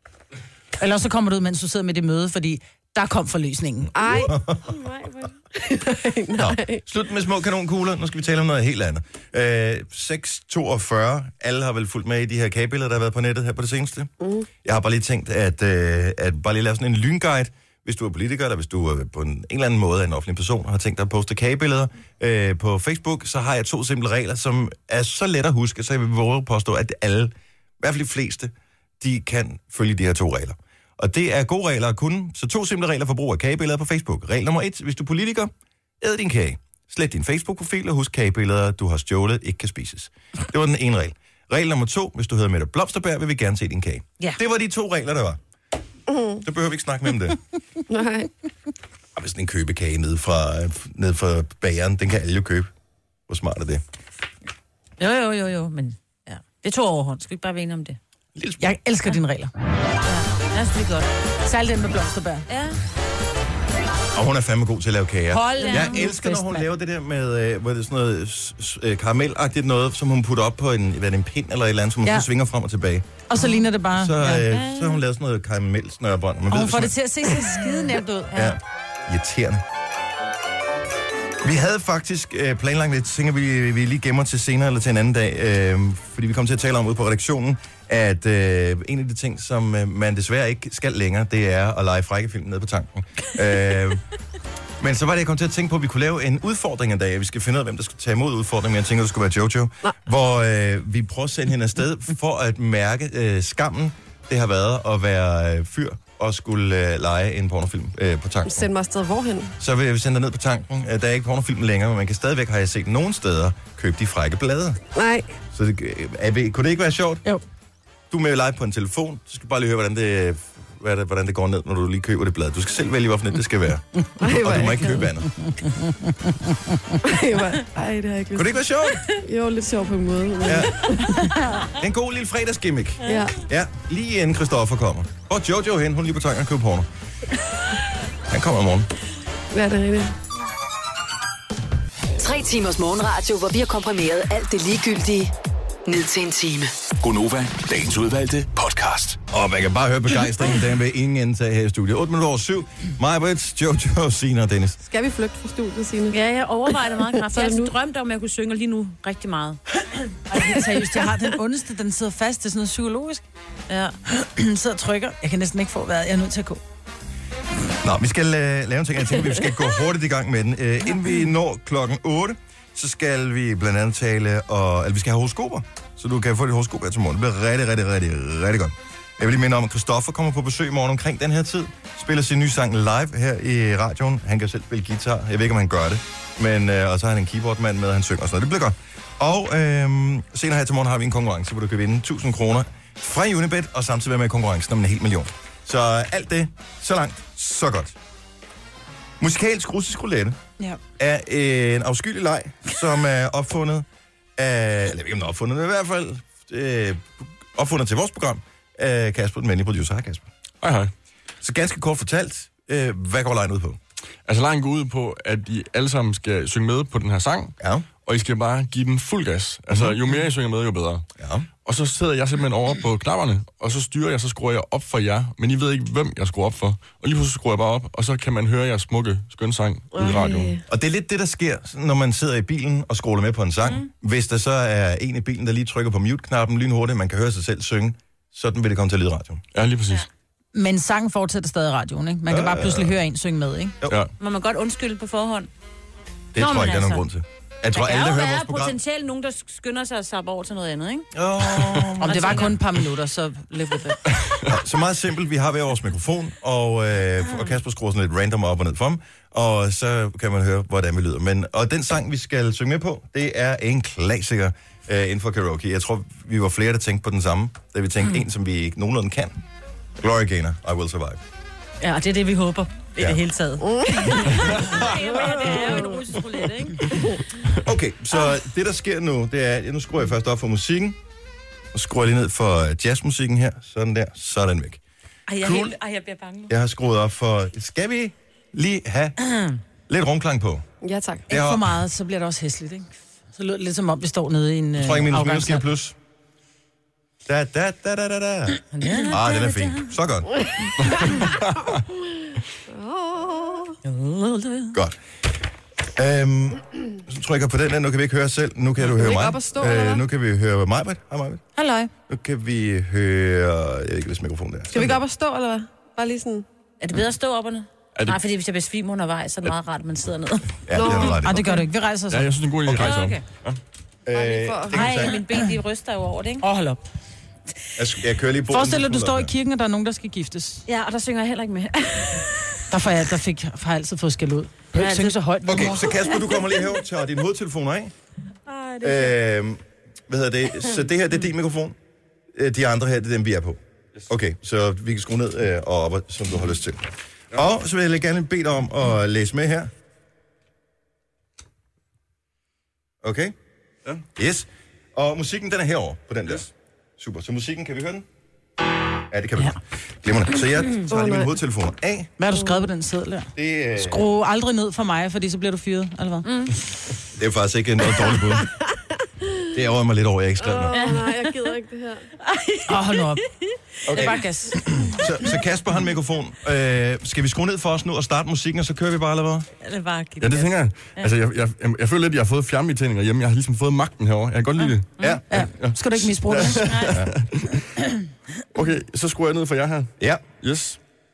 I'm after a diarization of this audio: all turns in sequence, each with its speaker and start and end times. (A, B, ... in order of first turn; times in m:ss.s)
0:00.8-0:03.9 A
0:03.9-0:06.8 B
0:04.0-0:04.7 C
0:06.3-0:14.1 C
0:14.2-0:14.5 B
0:14.6-0:45.4 C
0:46.1-0:46.4 B
0:46.4-0:47.4 C
0:47.9-0:48.3 B
0:49.1-0:52.7 C
0:53.3-0:53.8 C
0:55.0-0:58.0 D
0:58.3-0:58.7 C
0:58.6-0:59.5 A
1:00.0-1:01.1 D
1:01.4-1:02.4 A
1:02.5-1:02.8 D
1:04.1-1:13.1 C
1:05.3-1:06.7 A
1:05.4-1:06.0 D
1:13.3-1:14.5 A
1:13.9-1:16.9 C
1:14.5-1:15.0 D
1:16.5-1:18.6 A
1:18.3-1:19.6 C
1:21.4-1:34.0 C
1:34.8-1:48.7 C
1:48.4-1:49.5 B
1:49.6-1:54.8 C
1:54.9-1:55.3 B
1:55.5-1:57.2 C
1:58.1-2:05.3 C
2:04.2-2:05.1 B
2:05.4-2:06.9 A
2:07.0-2:08.5 B
2:08.3-2:09.0 C
2:09.2-2:11.2 B
2:10.4-2:10.8 C
2:11.7-2:16.9 C
2:13.0-2:13.4 B
2:18.3-2:18.9 C
2:19.5-2:20.1 B
2:22.2-2:25.3 E
2:25.9-2:26.7 E
2:27.0-2:29.2 F
2:29.3-2:34.8 C
2:34.9-2:36.2 B
2:36.1-2:39.6 D
2:37.2-2:37.7 B
2:40.3-2:43.2 A
2:43.7-2:44.0 D
2:44.1-2:46.6 A
2:47.8-3:17.9 C
3:19.2-3:20.4 C
3:21.0-3:23.9 C
3:24.4-3:30.3 C
3:30.6-3:30.9 G
3:31.4-3:33.8 C
3:34.2-3:41.0 G
3:37.6-3:37.9 C
3:39.7-3:40.0 C
3:41.2-3:41.5 C
3:41.6-3:50.6 G
3:49.9-3:50.6 B
3:50.7-3:59.4 C
3:59.5-4:00.0 G
4:00.5-4:03.8 A
4:02.3-4:03.0 C
4:03.9-4:04.1 G
4:04.2-4:05.5 D
4:06.3-4:08.8 C
4:06.4-4:07.0 D
4:07.7-4:11.1 D
4:11.1-4:12.5 C
4:11.8-4:12.6 D
4:12.0-4:14.0 A
4:14.1-4:14.5 G
4:14.4-4:29.4 C
4:30.0-4:31.2 C
4:31.8-4:37.0 D
4:33.6-4:34.3 B
4:34.5-4:35.2 C
4:37.6-4:41.0 C
4:41.7-4:44.8 C
4:45.3-4:46.5 D
4:45.4-4:45.8 C
4:46.5-4:49.2 C
4:49.2-4:49.5 D
4:49.9-4:50.6 C
4:50.8-4:51.3 B
4:51.3-4:51.8 C
4:51.3-4:55.6 A
4:54.8-4:55.9 C
4:57.2-5:00.4 C
4:58.7-4:59.1 A
4:58.9-4:59.8 D
5:02.7-5:03.8 B
5:03.9-5:04.7 D
5:04.7-5:05.0 C
5:06.0-5:11.4 C
5:08.9-5:10.0 B
5:11.6-5:11.9 A
5:12.1-5:15.0 C
5:14.7-5:16.4 B
5:16.8-5:20.6 D
5:20.6-5:21.5 C
5:20.7-5:21.5 B
5:21.1-5:22.3 A
5:22.1-5:23.6 G
5:22.7-5:23.2 D
5:24.0-5:25.2 C
5:24.1-5:25.0 B
5:24.7-5:26.4 D
5:26.4-5:26.8 A
5:27.8-5:29.3 C
5:28.5-5:30.6 A
5:30.7-5:32.5 D
5:32.7-5:36.0 A
5:34.7-5:36.4 D
5:35.4-5:37.9 C
5:38.5-5:39.2 D
5:38.8-5:41.8 C
5:42.3-5:49.7 C
5:53.0-5:53.3 C
5:54.1-5:58.0 C
5:59.1-6:02.1 C
6:00.9-6:01.4 B
6:02.2-6:06.3 A
6:03.3-6:04.0 C
6:06.2-6:06.5 D
6:07.1-6:08.5 C
6:09.5-6:10.9 C
6:10.4-6:12.0 B
6:10.7-6:11.5 D
6:12.2-6:14.2 D
6:12.7-6:13.2 A
6:13.9-6:19.5 C
6:13.9-6:14.6 A
6:19.6-6:21.1 D
6:20.2-6:27.6 G
6:24.6-6:25.2 D
6:25.0-6:25.2 C
6:25.3-6:26.7 A
6:26.3-6:27.1 C
6:26.6-6:27.0 D
6:28.5-6:30.8 G
6:30.0-6:30.2 C